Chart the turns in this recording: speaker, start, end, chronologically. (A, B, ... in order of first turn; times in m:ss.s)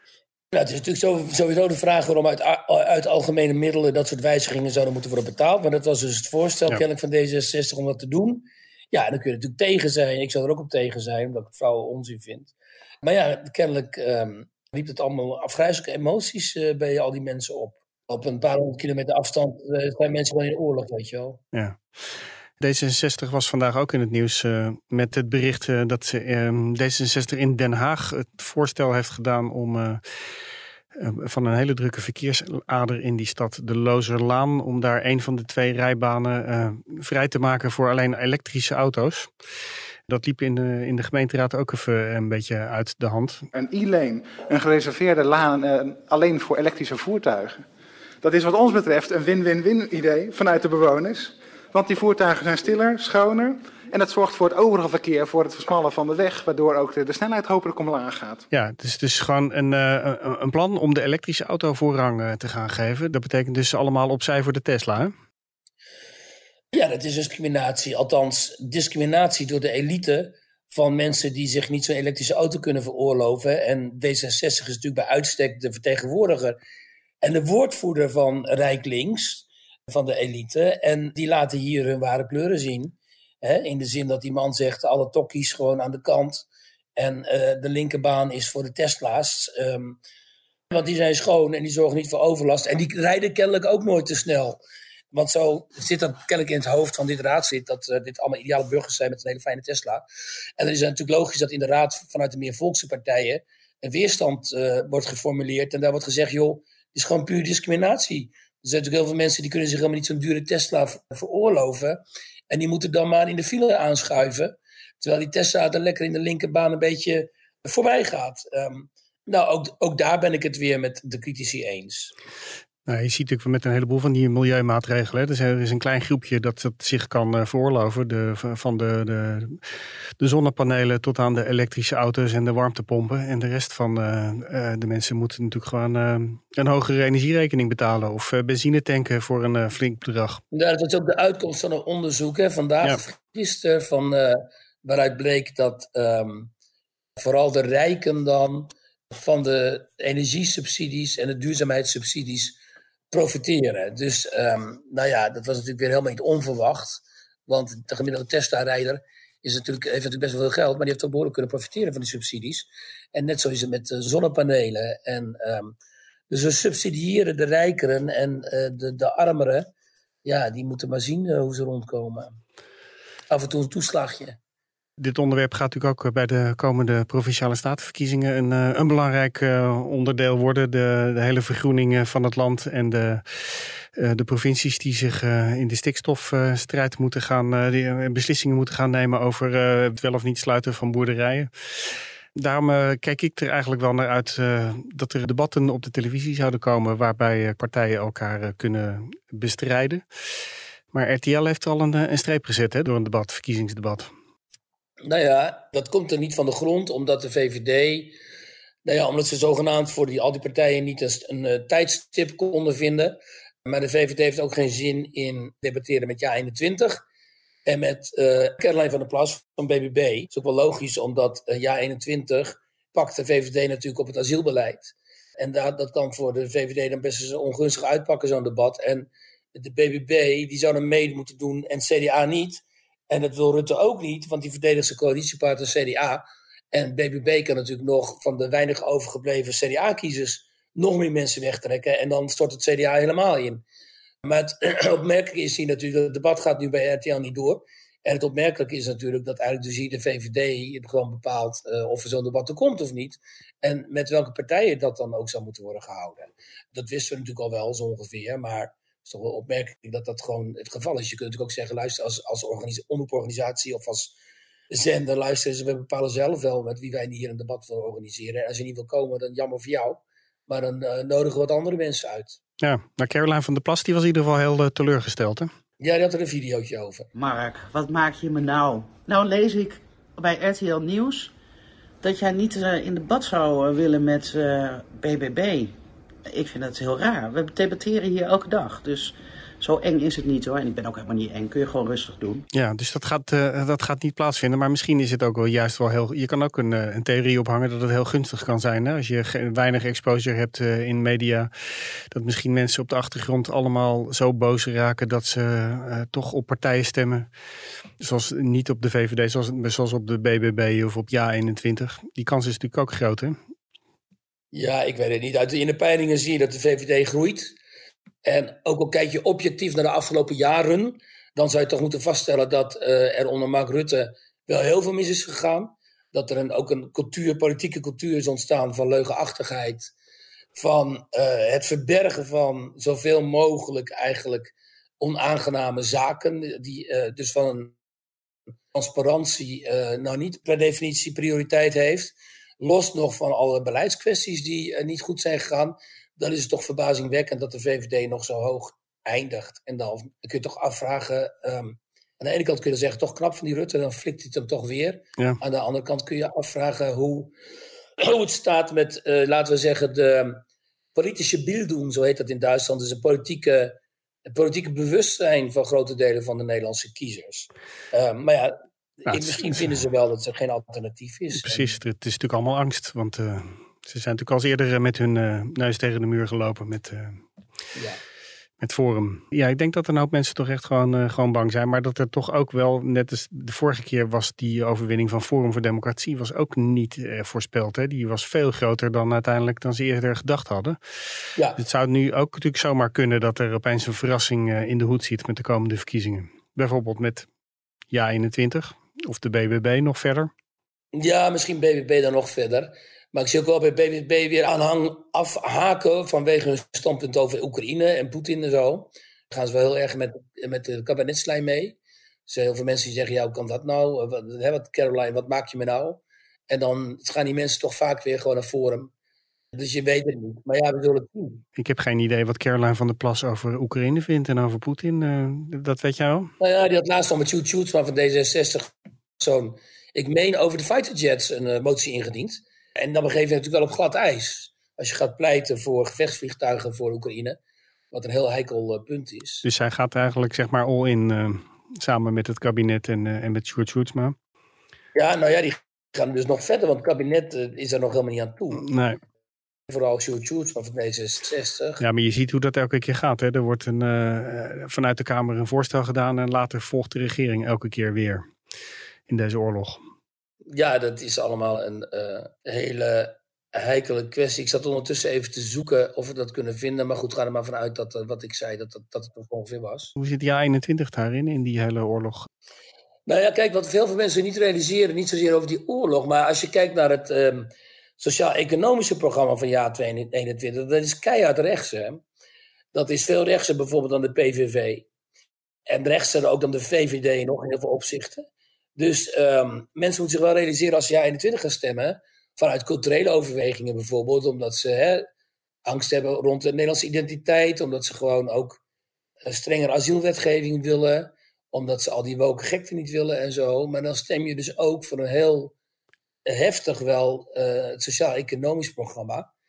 0:00.5-0:21.4 A
0:21.5-0:21.8 B
0:22.6-0:30.0 B
0:30.9-0:39.3 B
0:40.1-0:43.5 B
0:43.5-0:47.6 C
0:48.2-0:58.5 C
0:58.5-1:05.1 B
1:06.7-1:16.6 A
1:17.2-1:30.0 A
1:30.7-1:34.6 A
1:35.1-1:40.0 A
1:40.6-2:02.1 A
2:02.8-2:09.6 B
2:10.2-2:20.4 B
2:20.5-2:26.5 A
2:27.2-2:32.6 A
2:33.1-2:45.8 A
2:46.3-2:49.7 A
2:50.2-2:52.4 A
2:53.3-2:54.4 A
2:55.0-3:11.5 B
3:12.3-3:20.0 B
3:20.9-3:24.1 B
3:25.0-3:28.2 A
3:28.8-3:37.0 A
3:37.6-4:03.6 A
4:04.2-4:24.1 A
4:24.7-4:32.4 A
4:32.6-4:35.5 B
4:35.8-4:37.1 A
4:37.1-4:41.3 D
4:42.0-4:45.7 D
4:46.3-4:52.4 D
4:52.5-5:01.5 B
5:02.1-5:07.3 B
5:08.0-5:13.4 B
5:14.5-5:17.6 A
5:18.2-5:29.9 A
5:30.5-5:37.8 A
5:38.7-5:57.3 A
5:58.0-6:00.4 A
6:00.9-6:11.7 A
6:09.1-6:09.7 B
6:11.3-6:17.2 B
6:17.7-6:18.0 A
6:18.6-6:30.8 B
6:31.6-6:37.3 B
6:37.9-6:40.3 B
6:40.9-6:58.9 A
6:59.5-7:01.4 A
7:01.6-7:06.3 B
7:06.4-7:17.4 A
7:17.9-7:19.4 A
7:19.4-7:24.2 B
7:24.9-7:28.6 A
7:28.5-7:29.0 B
7:29.7-7:31.8 A
7:31.8-7:38.2 B
7:39.1-7:39.8 B
7:40.5-7:49.9 A
7:50.0-7:52.3 B
7:53.1-8:02.0 A
8:02.7-8:04.9 A
8:05.7-8:08.2 A
8:08.8-8:15.1 A
8:15.6-8:18.6 A
8:19.2-8:25.5 A
8:26.2-8:29.3 A